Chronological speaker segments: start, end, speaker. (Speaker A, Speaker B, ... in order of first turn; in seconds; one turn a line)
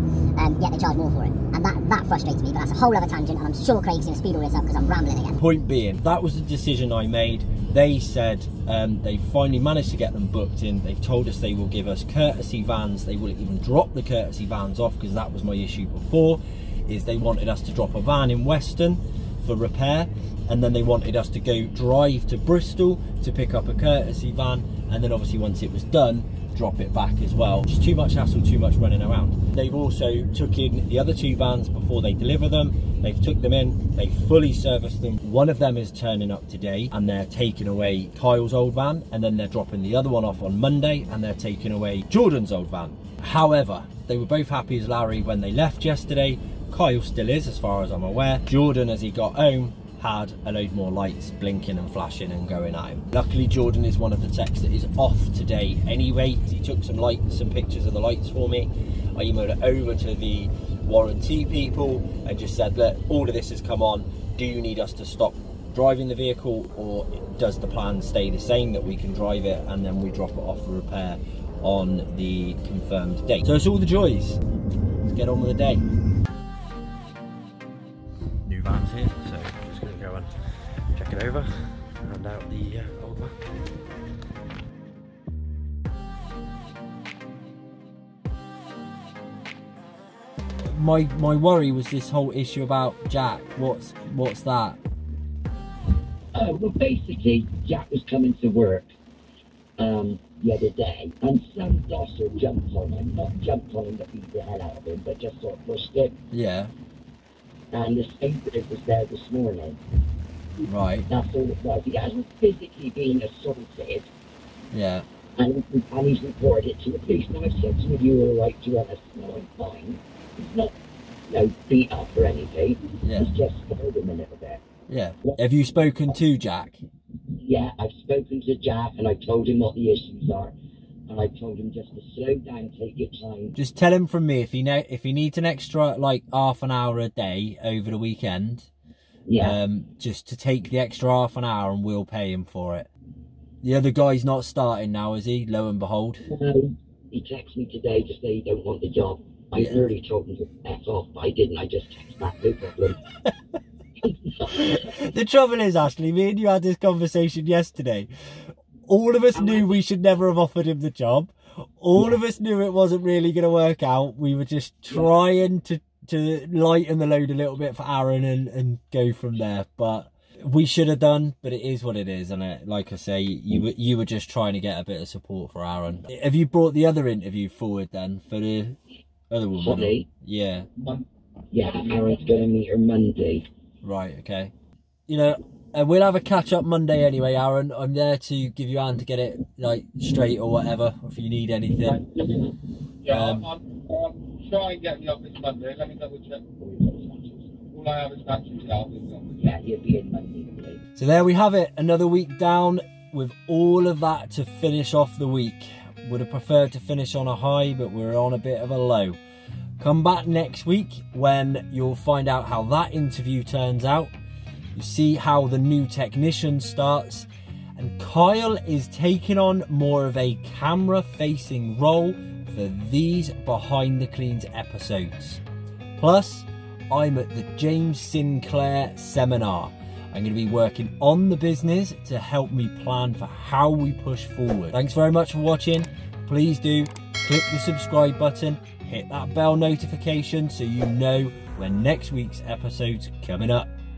Speaker A: 0.4-5.4
Speaker B: 5.3-74.4
Speaker B: 75.0-75.8
Speaker B: 78.5-83.5
Speaker B: 90.6-94.8
Speaker C: 96.3-98.9
Speaker C: 99.8-106.2
Speaker B: 106.3-106.7
Speaker C: 107.7-109.8
Speaker B: 110.7-111.1
Speaker C: 111.1-114.1
Speaker B: 114.7-115.0
Speaker C: 115.4-120.7
Speaker C: 121.3-124.6
Speaker B: 123.0-123.3
Speaker B: 124.9-126.8
Speaker C: 127.4-130.5
Speaker C: 131.1-133.6
Speaker B: 133.6-138.7
Speaker C: 139.3-139.6
Speaker B: 139.4-142.9
Speaker B: 143.6-146.3
Speaker C: 146.2-153.0
Speaker B: 149.6-149.9
Speaker C: 154.0-155.0
Speaker B: 154.6-178.8
Speaker C: 159.3-159.7
Speaker B: 179.3-180.7
Speaker C: 179.6-180.1
Speaker C: 180.8-183.5
Speaker B: 183.8-184.5
Speaker B: 185.1-192.0
Speaker B: 193.1-193.5
Speaker D: 194.5-196.3
Speaker C: 196.6-197.5
Speaker D: 197.7-199.2
Speaker C: 199.3-200.8
Speaker B: 201.0-209.2
Speaker B: 209.8-214.1
Speaker B: 214.8-217.3
Speaker B: 217.8-225.4
Speaker B: 226.0-243.7